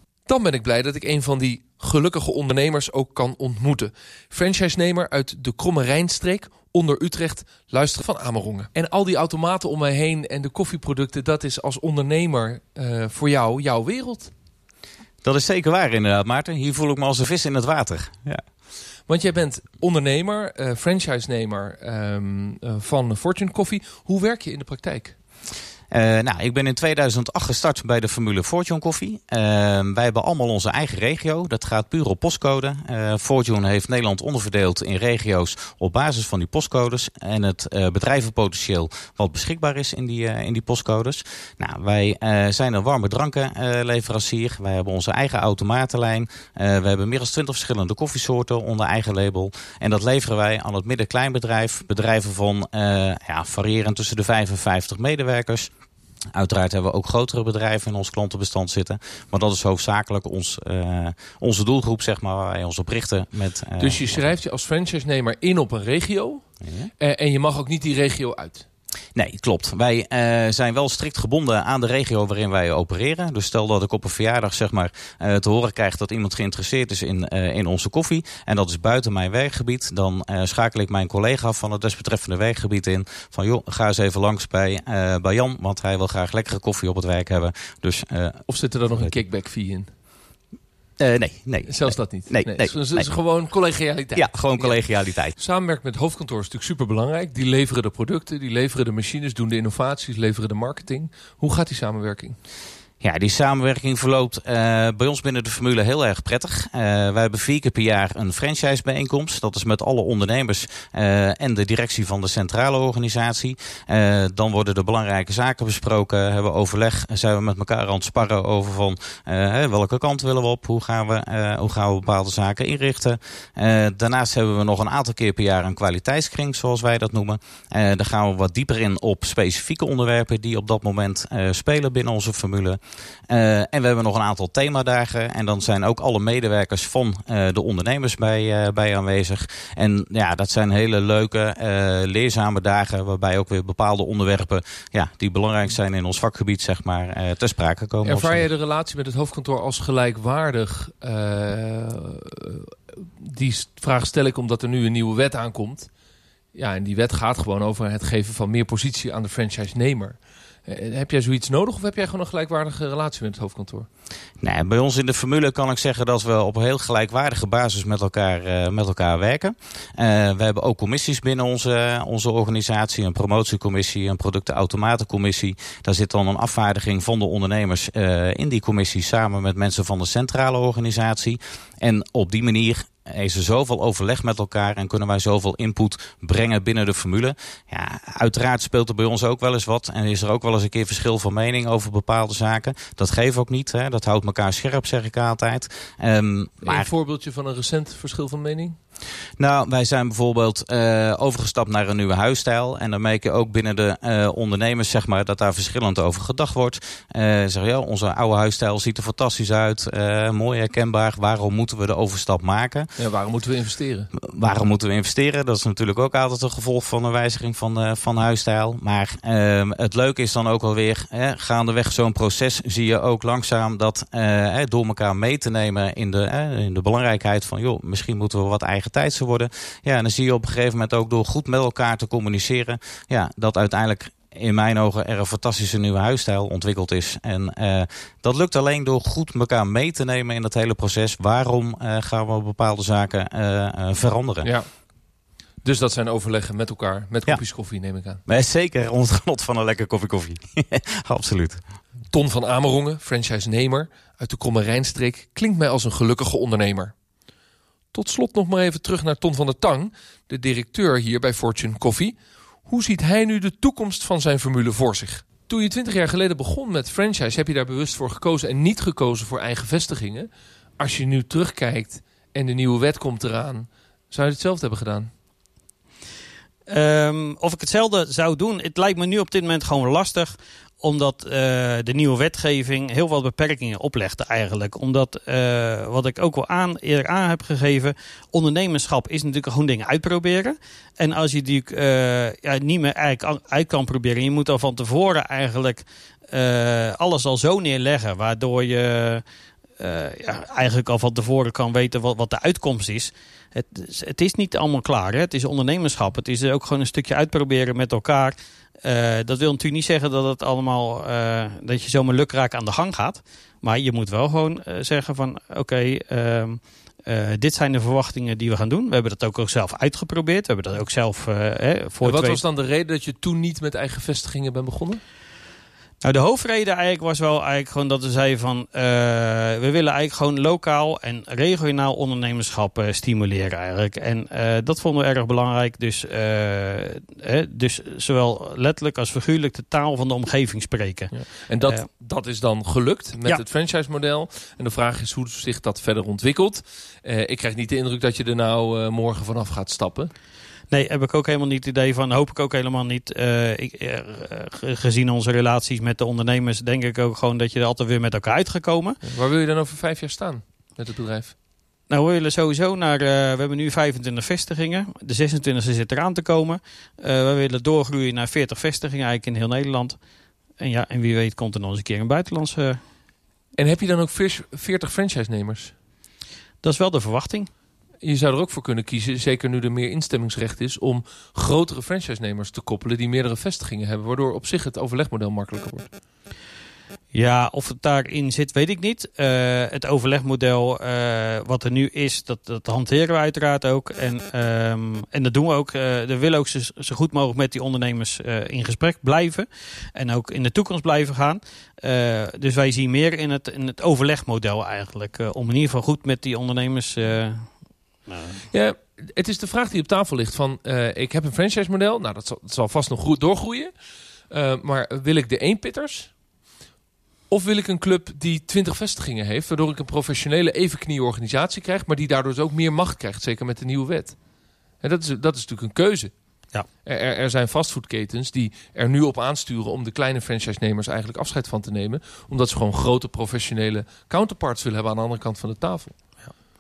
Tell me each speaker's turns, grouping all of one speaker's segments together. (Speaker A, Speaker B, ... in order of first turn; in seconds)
Speaker A: 0.3-14.3, 19.1-25.1, 63.8-66.5, 67.0-68.7, 88.5-89.9, 91.7-94.8, 95.4-102.4, 148.1-155.9, 156.6-163.9, 196.6-198.8, 213.0-214.1, 245.6-248.2, 252.1-256.9, 257.9-262.1, 262.7-275.1, 322.0-325.0, 341.1-350.1, 359.0-361.3, 373.6-375.7, 378.0-385.9, 408.5-413.7, 414.3-416.1, 417.3-424.2, 424.8-426.1, 426.9-435.9
Speaker B: 15.2-18.4, 25.9-55.7, 56.3-64.2, 66.7-66.9, 69.2-88.4, 91.0-93.1, 94.2-95.3, 103.0-132.8, 133.3-148.5, 164.4-196.9, 199.4-212.9, 214.2-244.5, 248.3-251.6
Speaker C: 276.7-299.2, 299.8-322.4, 326.0-341.1, 350.7-359.0, 361.9-370.0, 370.6-372.8, 376.6-377.5, 387.1-407.5, 408.1-408.4